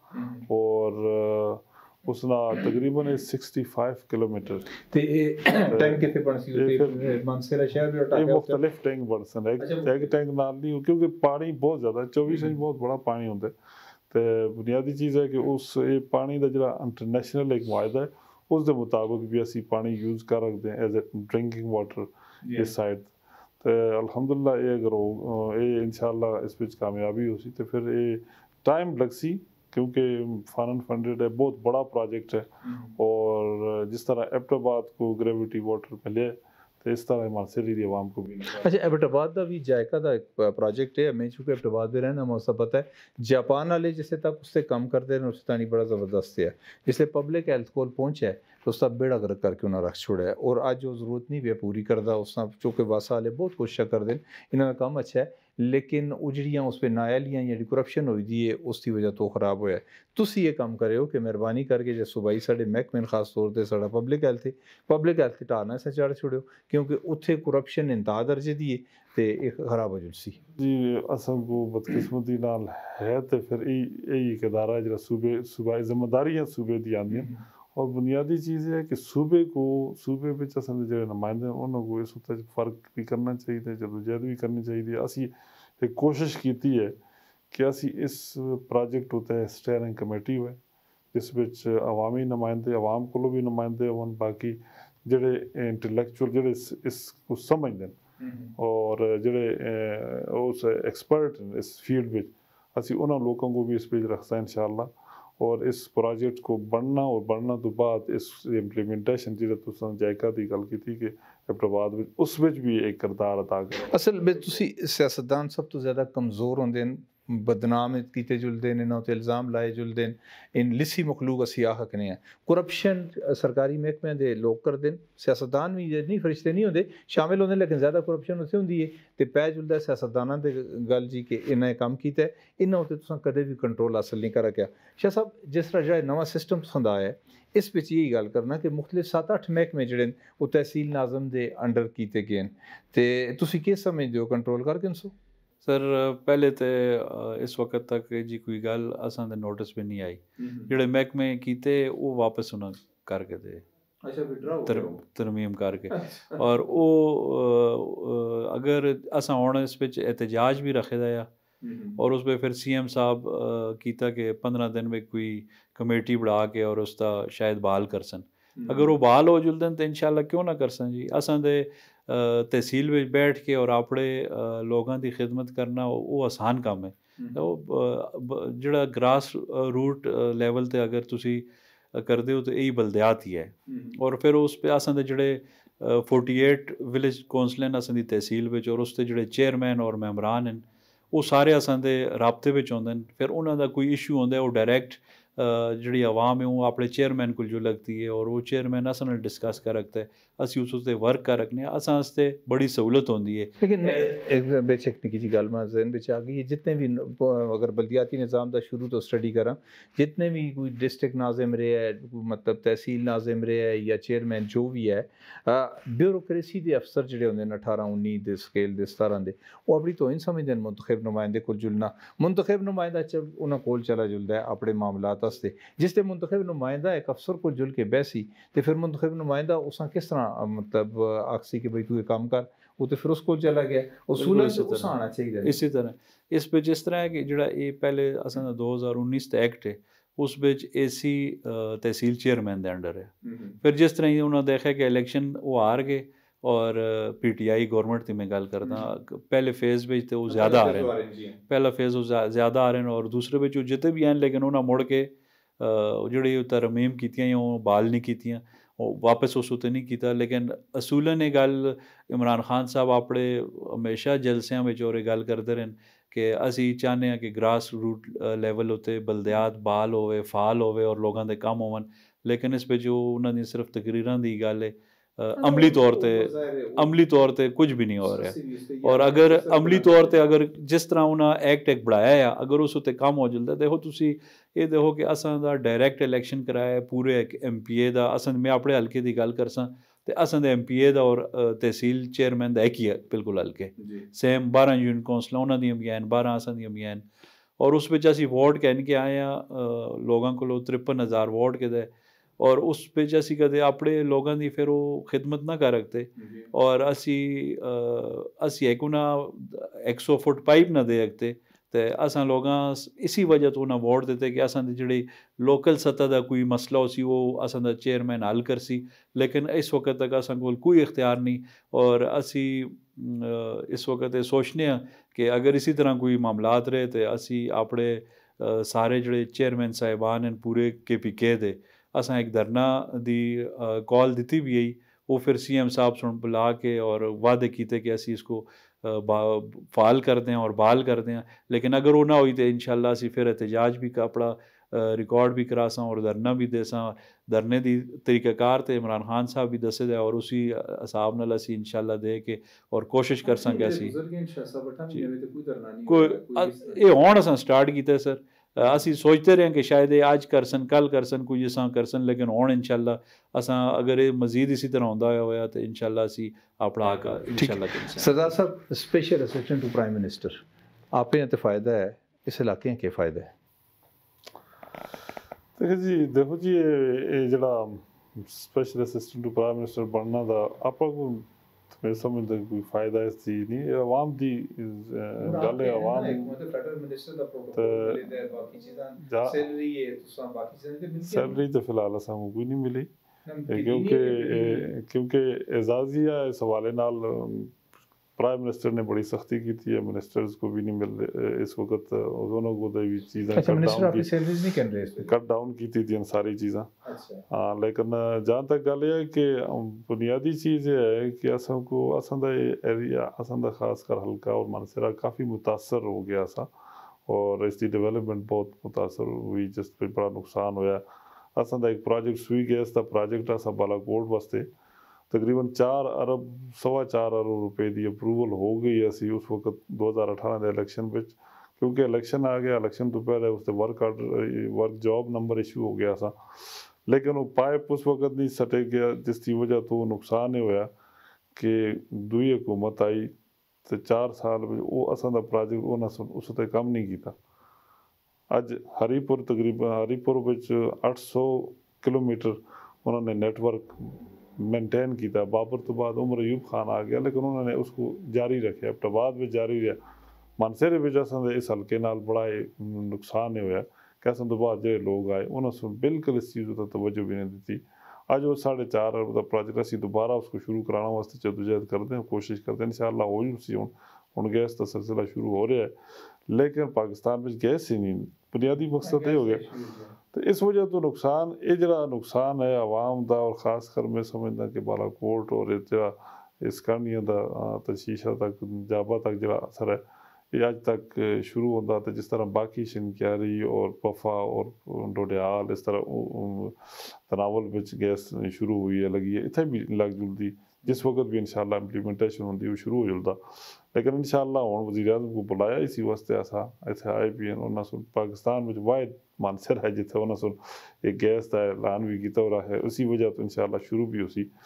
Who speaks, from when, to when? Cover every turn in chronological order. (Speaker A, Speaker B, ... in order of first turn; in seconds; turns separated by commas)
Speaker A: 0.1-0.4, Speaker B: 0.5-4.7, Speaker A: 4.8-8.6, Speaker B: 5.7-7.2, Speaker B: 8.1-13.5, Speaker A: 9.6-9.9, Speaker B: 14.1-38.7, Speaker A: 22.4-22.7, Speaker A: 32.6-32.9, Speaker A: 38.6-70.4, Speaker B: 70.5-87.0, Speaker A: 77.1-77.4, Speaker B: 87.5-90.6, Speaker B: 91.1-98.0, Speaker A: 98.2-98.5, Speaker B: 98.6-114.0, Speaker A: 113.9-145.1, Speaker C: 145.6-153.6, Speaker A: 150.4-150.7, Speaker A: 154.0-155.0, Speaker C: 154.7-161.3, Speaker A: 155.9-156.4, Speaker A: 161.6-162.0, Speaker C: 162.0-204.1, Speaker A: 168.6-168.9, Speaker A: 183.7-183.9, Speaker A: 203.6-235.5, Speaker C: 234.2-250.9, Speaker A: 243.2-243.6, Speaker A: 250.3-251.4, Speaker C: 251.5-297.0, Speaker A: 275.4-277.0, Speaker A: 278.0-280.1, Speaker A: 293.8-294.1, Speaker C: 297.6-353.9, Speaker A: 306.2-306.5, Speaker A: 353.2-356.8, Speaker C: 355.9-368.3, Speaker A: 367.3-370.4, Speaker A: 370.9-373.3, Speaker B: 375.6-386.4, Speaker A: 385.2-391.4, Speaker B: 387.5-388.1, Speaker B: 389.0-389.4, Speaker B: 391.1-392.9, Speaker A: 393.2-394.7, Speaker B: 393.5-397.6, Speaker B: 398.2-404.1, Speaker A: 403.3-405.1, Speaker B: 405.0-406.7, Speaker A: 406.8-407.2, Speaker B: 407.3-416.5, Speaker B: 417.1-420.8, Speaker B: 421.4-424.5, Speaker B: 425.1-440.7, Speaker B: 441.3-443.1, Speaker B: 443.6-447.1, Speaker B: 448.3-459.8, Speaker B: 460.4-475.7, Speaker B: 476.3-479.5, Speaker A: 478.8-479.9, Speaker B: 480.1-514.3